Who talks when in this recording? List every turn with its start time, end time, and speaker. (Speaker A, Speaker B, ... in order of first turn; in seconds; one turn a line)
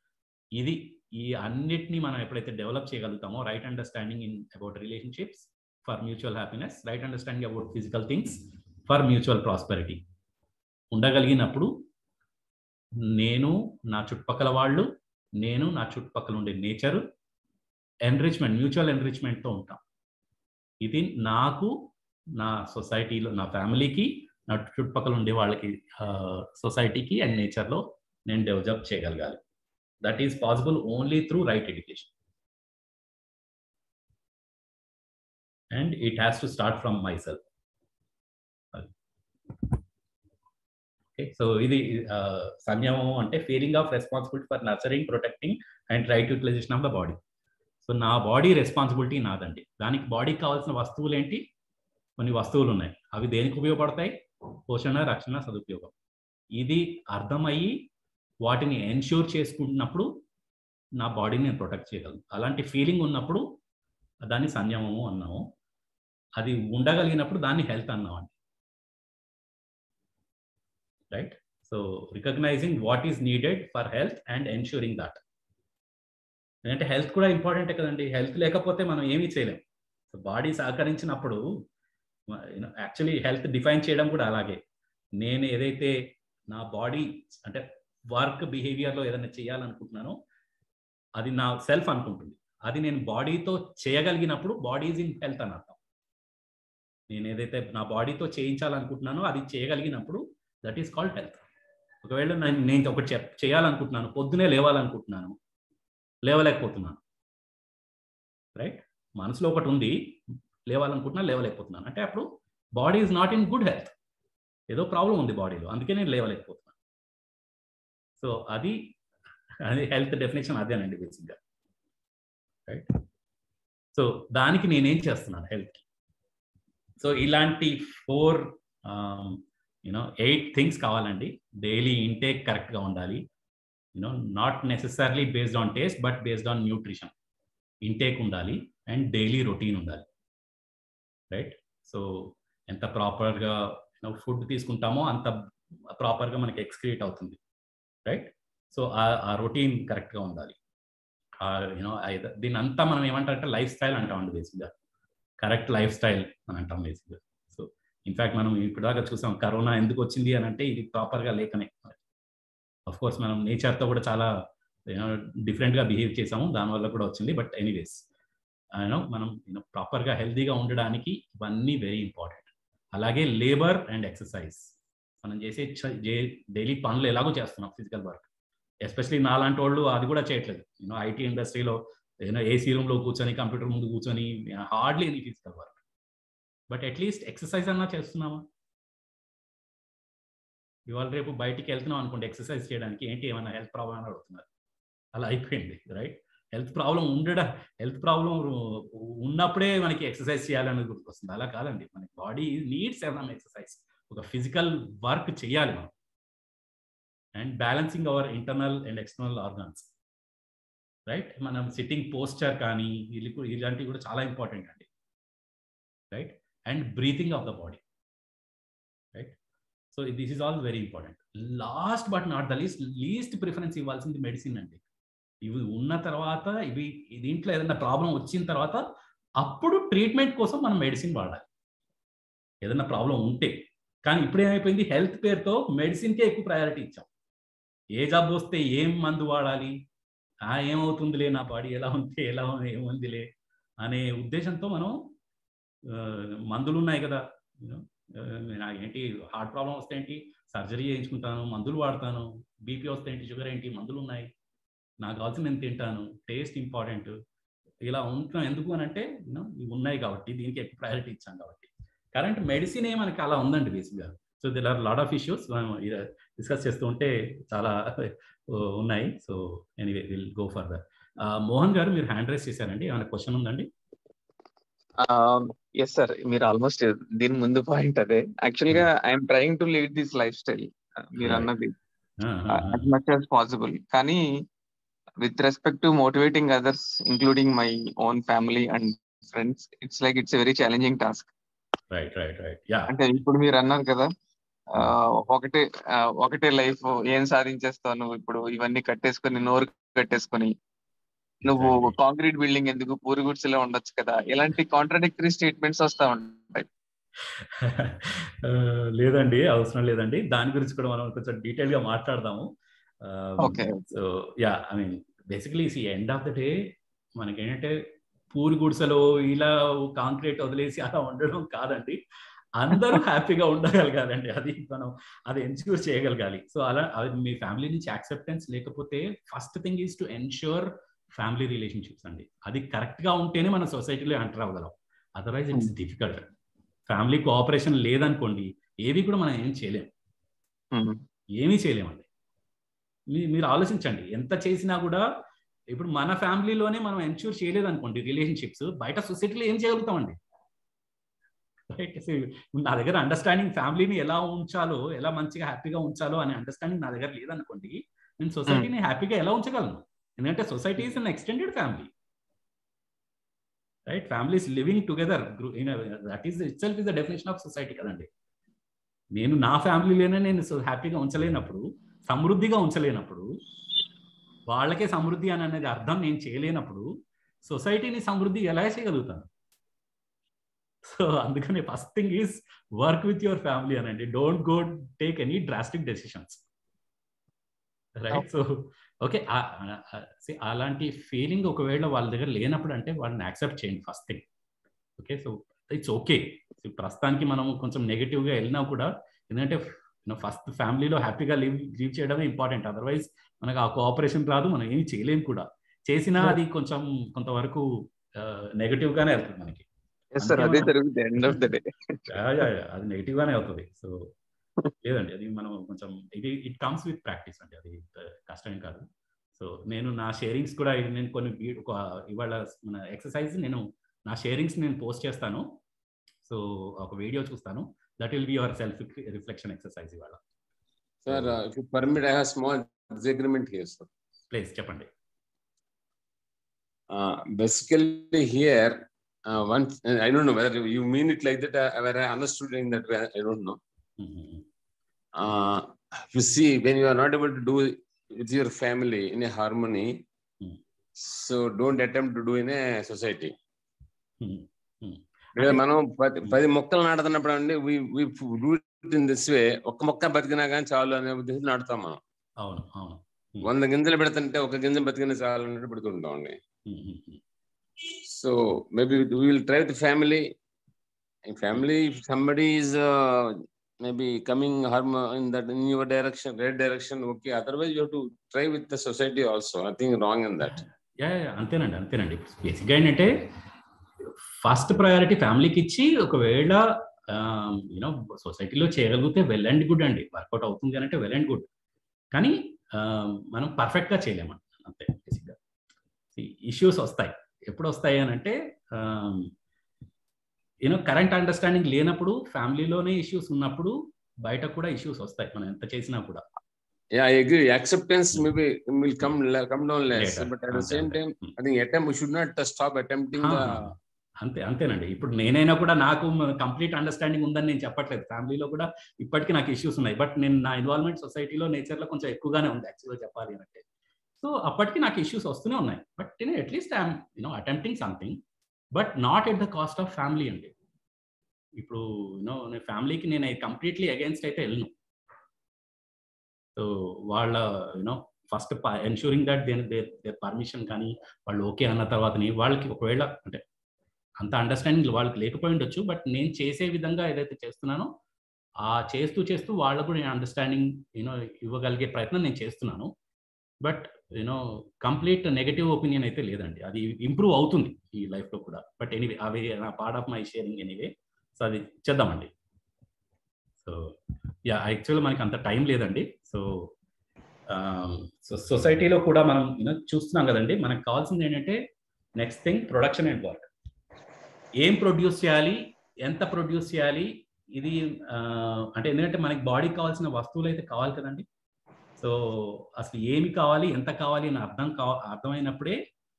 Speaker A: 0.6-10.0
Speaker A: 10.9-11.7
Speaker A: 13.2-14.9
Speaker A: 15.4-17.0
Speaker A: 18.1-19.8
Speaker A: 20.8-21.7
Speaker A: 22.4-29.4
Speaker A: 30.0-32.1
Speaker A: 35.7-37.4
Speaker A: 41.1-47.2
Speaker A: 47.8-51.4
Speaker A: 52.2-54.1
Speaker A: 54.7-55.9
Speaker A: 56.6-57.8
Speaker A: 58.4-60.1
Speaker A: 61.0-63.4
Speaker A: 64.2-65.4
Speaker A: 66.4-68.3
Speaker A: 71.1-75.2
Speaker A: 76.7-81.4
Speaker A: 82.3-84.6
Speaker A: 85.2-85.9
Speaker A: 86.5-90.2
Speaker A: 91.2-95.8
Speaker A: 97.1-101.4
Speaker A: 102.0-105.3
Speaker A: 106.2-107.0
Speaker A: 108.5-110.2
Speaker A: 110.7-113.9
Speaker A: 114.7-116.7
Speaker A: 118.2-118.8
Speaker A: 119.6-121.4
Speaker A: 124.0-125.8
Speaker A: 127.0-133.2
Speaker A: 133.9-137.1
Speaker A: 137.8-140.0
Speaker A: 141.3-145.3
Speaker A: 145.9-147.4
Speaker A: 148.1-150.6
Speaker A: 151.4-154.7
Speaker A: 155.4-162.0
Speaker A: 162.9-164.3
Speaker A: 164.9-168.0
Speaker A: 168.8-174.6
Speaker A: 175.2-178.2
Speaker A: 178.8-185.8
Speaker A: 186.7-188.4
Speaker A: 190.9-194.4
Speaker A: 195.1-205.9
Speaker A: 207.3-209.9
Speaker A: 211.1-214.9
Speaker A: 216.1-217.8
Speaker A: 219.9-224.8
Speaker A: 225.4-228.8
Speaker A: 229.4-231.4
Speaker A: 232.6-237.1
Speaker A: 237.9-239.7
Speaker A: 240.5-243.2
Speaker A: 243.8-245.0
Speaker A: 245.9-254.3
Speaker A: 255.0-257.1
Speaker A: 257.9-273.7
Speaker B: 275.0-281.7
Speaker A: 281.2-281.5
Speaker A: 282.2-282.9
Speaker B: 282.5-284.2
Speaker B: 285.2-291.3
Speaker A: 291.9-292.9
Speaker B: 292.9-294.1
Speaker B: 294.7-300.5
Speaker B: 301.4-306.7
Speaker A: 301.4-301.9
Speaker A: 307.6-312.5
Speaker A: 313.0-316.6
Speaker B: 313.4-313.8
Speaker A: 317.2-317.8
Speaker A: 318.3-322.0
Speaker A: 322.6-336.3
Speaker A: 336.9-339.9
Speaker B: 340.7-341.0
Speaker A: 341.4-342.1
Speaker A: 343.1-345.0
Speaker A: 345.7-350.2
Speaker A: 351.7-361.9
Speaker A: 363.9-368.1
Speaker A: 369.1-373.3
Speaker A: 374.5-376.9
Speaker A: 377.4-379.3
Speaker A: 380.9-386.4
Speaker A: 388.0-394.2
Speaker A: 395.0-407.6
Speaker A: 408.2-409.6
Speaker B: 410.1-412.4
Speaker A: 410.2-410.7
Speaker A: 412.1-414.1
Speaker A: 414.8-418.9
Speaker A: 419.4-425.5
Speaker A: 426.2-430.2
Speaker C: 431.1-433.9
Speaker A: 431.1-431.4
Speaker A: 434.3-434.9
Speaker C: 436.9-443.6
Speaker A: 444.0-444.4
Speaker C: 445.2-450.0
Speaker C: 451.0-453.3
Speaker A: 454.2-455.6
Speaker C: 455.4-462.0
Speaker A: 462.4-463.5
Speaker C: 463.4-466.4
Speaker A: 466.7-467.2
Speaker C: 468.0-470.3
Speaker C: 471.2-480.6
Speaker A: 480.5-483.1
Speaker A: 484.4-491.5
Speaker A: 492.1-495.4
Speaker A: 496.1-499.3
Speaker A: 500.6-506.2
Speaker C: 507.0-513.7
Speaker A: 509.9-511.4
Speaker A: 513.2-523.6
Speaker A: 524.2-528.2
Speaker A: 528.7-530.5
Speaker A: 531.6-534.7
Speaker A: 536.5-543.4
Speaker A: 544.2-547.9
Speaker A: 548.6-552.9
Speaker A: 553.6-562.3
Speaker A: 563.6-566.7
Speaker A: 567.5-571.6
Speaker A: 572.2-573.5
Speaker A: 574.6-581.2
Speaker A: 582.0-585.8